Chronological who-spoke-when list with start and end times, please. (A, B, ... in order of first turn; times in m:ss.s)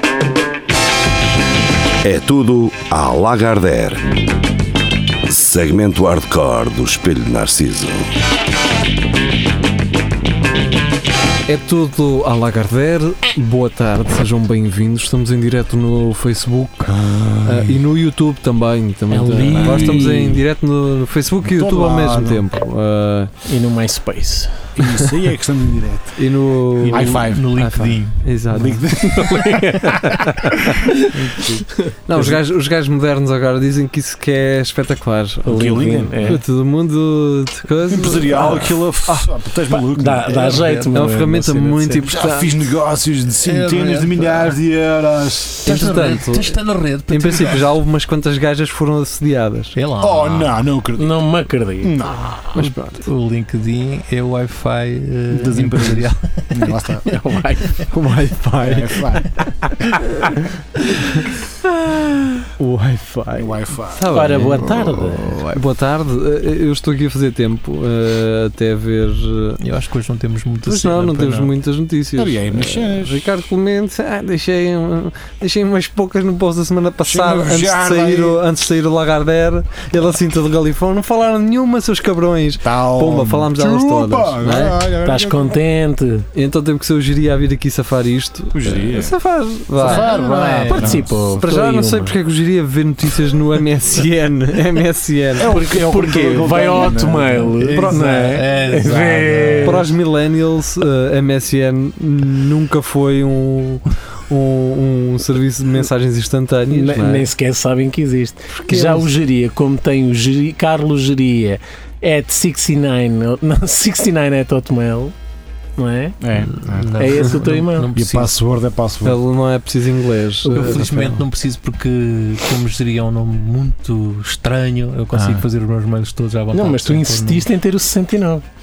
0:02.0-0:04.1 A
0:05.3-0:08.1 A
0:11.5-0:23.3 B
0:16.9-0:17.8 C
0:19.1-0:20.4 D
0:21.4-0:22.4 C
0:23.5-0:24.7 D
0:24.8-0:26.2 C
0:26.2-0:28.8 B
0:26.8-0:28.4 E
0:26.9-0:27.6 C
0:28.5-0:29.8 C
0:29.0-0:30.9 D
0:31.1-0:35.6 B
0:35.5-0:36.4 C
0:35.5-0:36.4 D
0:36.2-0:39.3 B
0:37.9-0:40.8 C
0:38.3-0:38.7 D
0:39.7-0:42.0 D
0:40.3-0:41.0 E
0:40.9-0:42.7 B
0:42.1-0:45.6 C
0:43.4-0:44.6 E
0:45.6-0:47.7 E
0:45.6-0:49.8 B
0:49.8-0:50.5 E
0:50.0-0:51.3 C
0:51.0-0:52.6 D
0:51.8-0:52.5 C
0:52.6-0:56.7 E
0:52.6-0:53.0 B
0:55.3-0:57.1 C
0:57.0-0:57.9 D
0:57.9-0:58.9 B
0:58.6-1:00.0 C
1:02.6-1:04.6 B
1:03.3-1:05.2 C
1:04.1-1:05.3 D
1:05.2-1:05.6 E
1:05.5-1:09.6 B
1:09.6-1:11.6 E
1:10.6-1:24.8 B
1:12.2-1:13.2 C
1:17.1-1:18.4 C
1:22.6-1:25.6 C
1:25.0-1:26.3 D
1:26.3-1:30.1 B
1:28.5-1:29.2 C
1:29.8-1:31.4 C
1:29.8-1:31.0 E
1:30.6-1:32.2 D
1:31.3-1:35.7 B
1:35.4-1:38.0 C
1:35.4-1:39.9 D
1:37.8-1:38.2 B
1:38.0-1:39.8 E
1:39.2-1:39.6 C
1:39.6-1:47.3 B
1:46.7-1:55.2 D
1:48.5-1:49.1 B
1:55.8-1:56.2 D
1:56.2-1:56.9 C
1:56.4-1:58.3 E
1:57.0-1:57.9 D
1:58.0-1:59.2 C
1:59.0-2:01.2 B
2:00.4-2:00.8 D
2:00.5-2:07.5 E
2:05.1-2:05.4 C
2:06.5-2:08.4 D